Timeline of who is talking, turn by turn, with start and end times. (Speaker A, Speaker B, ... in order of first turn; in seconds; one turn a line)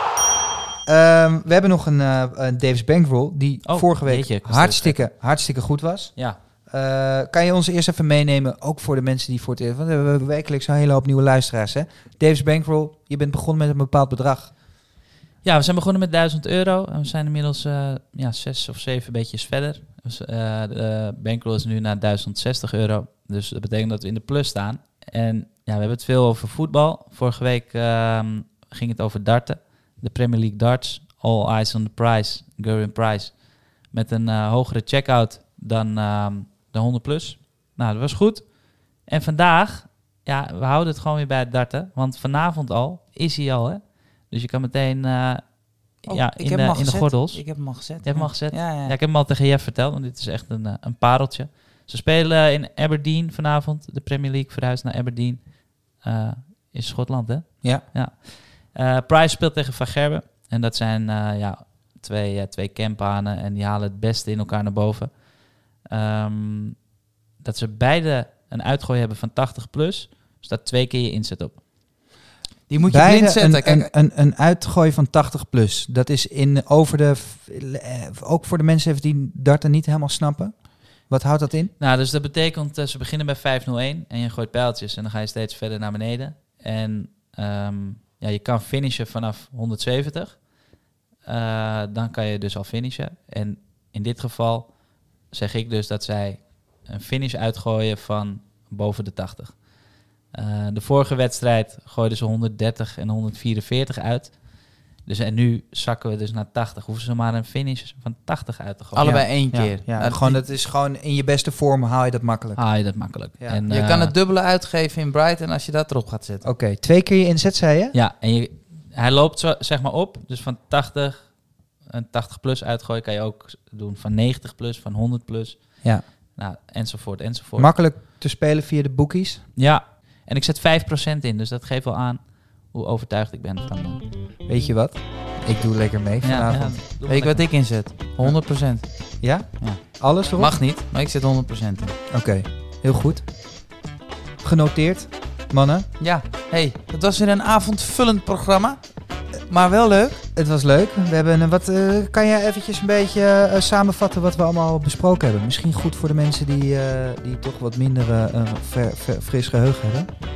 Speaker A: 0.8-14.5
Speaker B: 3.6-5.0
Speaker B: 15.4-66.9
Speaker C: 46.0-48.9
Speaker B: 67.4-71.6
Speaker C: 72.7-73.9
Speaker A: 72.9-81.7
Speaker B: 81.8-90.5
Speaker B: 91.2-109.2
Speaker C: 109.0-110.4
Speaker A: 109.0-113.6
Speaker B: 112.6-114.1
Speaker C: 113.7-116.5
Speaker A: 116.4-117.9
Speaker B: 117.9-127.7
Speaker A: 127.6-129.5
Speaker B: 129.6-134.1
Speaker A: 134.4-136.8
Speaker B: 136.2-137.4
Speaker C: 137.1-141.9
Speaker A: 138.2-140.6
Speaker A: 142.1-143.2
Speaker A: 144.4-145.9
Speaker C: 146.0-150.2
Speaker A: 150.3-160.1